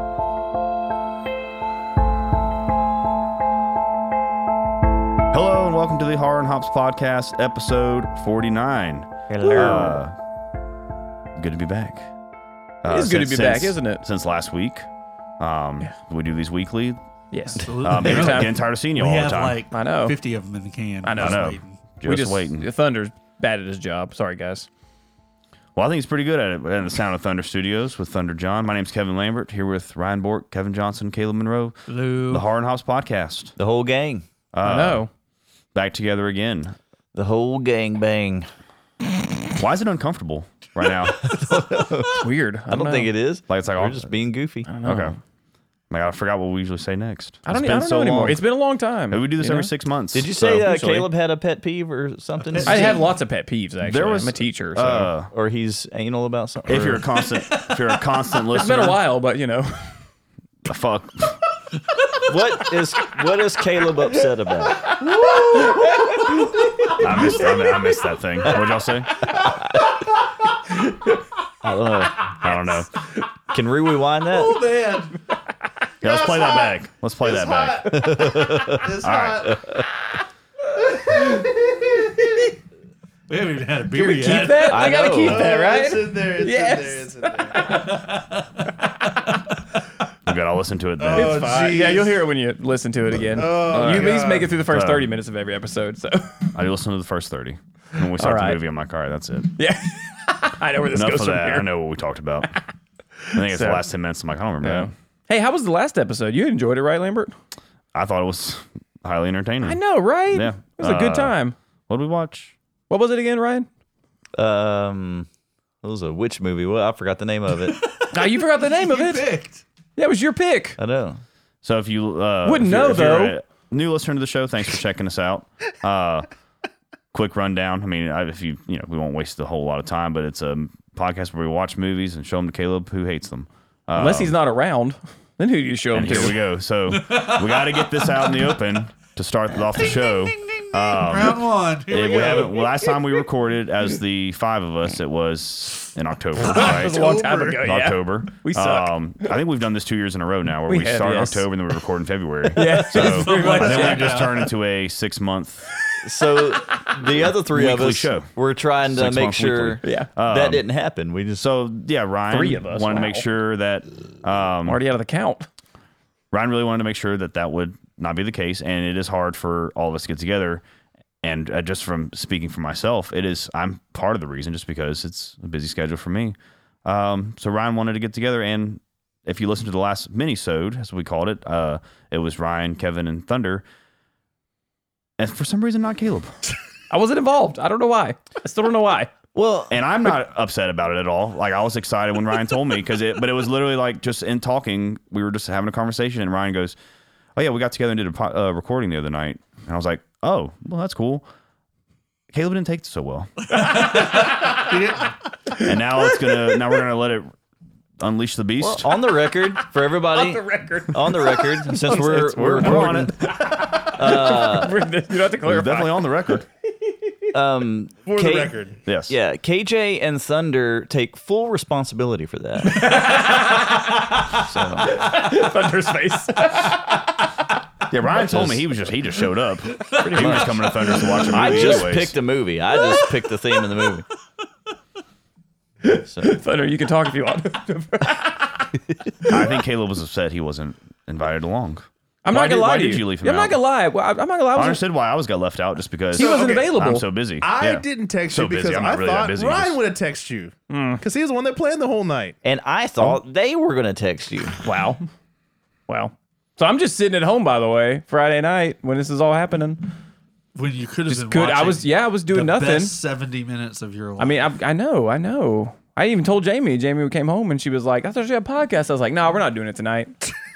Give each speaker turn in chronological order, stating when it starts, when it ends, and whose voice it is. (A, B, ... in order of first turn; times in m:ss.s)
0:05.3-0:10.2 A
0:09.4-0:10.0 B
0:11.4-0:12.1 A
0:12.8-0:14.9 A
0:12.9-0:14.0 B
0:15.4-0:17.0 A
0:17.3-0:18.6 B
0:17.6-0:21.8 C
0:17.8-0:19.6 A
0:19.7-0:20.2 B
0:21.0-0:24.7 B
0:21.1-0:22.7 A
0:25.8-0:33.6 A
0:31.9-0:32.5 C
0:33.6-0:34.2 D
0:34.5-0:35.1 A
0:34.6-0:35.1 B
0:35.7-0:36.8 A
0:37.1-0:38.5 D
0:39.6-0:41.3 A
0:41.3-0:44.7 D
0:42.1-0:43.1 B
0:43.5-0:44.1 A
0:44.7-0:45.2 B
0:44.8-0:45.2 A
0:45.9-0:48.4 A
0:47.5-0:49.7 B
0:49.1-0:51.1 A
0:50.1-0:53.0 D
0:52.4-0:53.1 C
0:52.6-0:55.1 B
0:53.8-0:55.3 A
0:55.3-0:57.0 D
0:56.7-0:59.0 A
0:58.5-1:00.0 B
1:00.7-1:01.4 A
1:02.3-1:04.9 D
1:05.0-1:05.8 E
1:05.5-1:06.3 B
1:06.8-1:07.9 B
1:06.9-1:09.3 A
1:09.4-1:09.8 D
1:11.6-1:12.3 D
1:12.4-1:12.9 A
1:13.5-1:14.6 D
1:14.3-1:15.2 C
1:16.0-1:18.1 A
1:16.0-1:16.7 E
1:17.2-1:19.6 E
1:17.9-1:18.9 D
1:19.0-1:19.7 A
1:19.5-1:19.8 D
1:21.0-1:22.3 E
1:21.1-1:21.5 B
1:23.3-1:24.8 C
1:23.9-1:28.0 B
1:24.6-1:25.5 D
1:25.2-1:27.8 E
1:27.6-1:29.4 C
1:28.9-1:29.2 B
1:30.3-1:31.6 A
1:31.0-1:32.2 E
1:31.1-1:36.5 B
1:33.2-1:34.5 E
1:33.7-1:35.2 A
1:36.5-1:39.6 A
1:38.2-1:38.6 B
1:39.6-1:41.7 B
1:40.9-1:42.5 A
1:43.3-1:43.9 B
1:43.3-1:44.9 A
1:44.6-1:47.3 B
1:47.9-1:49.8 A
1:49.6-1:51.6 B
1:50.3-1:51.4 A
1:51.9-1:52.6 A
1:52.9-1:53.7 B
1:54.4-1:55.3 D
1:55.8-1:57.8 D
1:57.6-1:59.6 C
1:58.1-1:59.3 B
2:00.0-2:00.8 B
2:00.8-2:01.2 D
2:01.6-2:06.3 A
2:02.4-2:03.4 B
2:07.1-2:14.4 A
2:14.0-2:16.4 B
2:15.9-2:35.7 A
2:16.9-2:18.6 C
2:21.0-2:22.9 C
2:26.4-2:29.4 B
2:26.5-2:27.6 E
2:30.7-2:31.5 B
2:32.5-2:34.5 B
2:32.8-2:34.5 C
2:35.9-2:36.6 B
2:36.0-2:41.4 D
2:37.5-2:40.6 A
2:39.8-2:40.1 B
2:41.4-2:44.8 A
2:42.3-2:43.2 B
2:44.6-2:45.5 B
2:46.3-2:50.6 A
2:51.2-3:03.6 A
3:05.2-3:06.3 A
3:06.9-3:09.1 B
3:09.4-3:09.8 D
3:09.7-3:16.8 A
3:17.4-3:21.3 A
3:22.3-3:23.6 A
3:23.5-3:25.6 C
3:25.6-3:27.3 A
3:28.0-3:28.9 A
3:28.6-3:33.1 D
3:30.1-3:36.3 B
3:31.9-3:33.6 A
3:33.8-3:34.8 D
3:35.4-3:36.5 A
3:37.3-3:38.6 D
3:38.1-3:38.8 E
3:38.9-3:39.2 A
3:39.1-3:43.0 D
3:42.6-3:47.1 B
3:44.3-3:45.0 D
3:47.9-3:52.2 A
3:48.1-3:48.7 D
3:50.0-3:50.4 B
3:50.1-3:50.5 D
3:51.3-3:52.1 B
3:51.3-3:54.0 D
3:52.9-3:53.1 B
3:55.8-3:59.4 B
3:55.8-3:56.4 D
3:59.3-4:03.6 A
4:02.2-4:04.8 B
4:04.6-4:09.8 A
4:06.1-4:07.1 B
4:06.2-4:06.7 E
4:07.4-4:12.4 E
4:10.7-4:11.0 B
4:12.4-4:14.6 D
4:14.6-4:15.0 B
4:15.9-4:19.9 B
4:20.6-4:24.4 C
4:21.1-4:23.0 B
4:24.2-4:30.3 B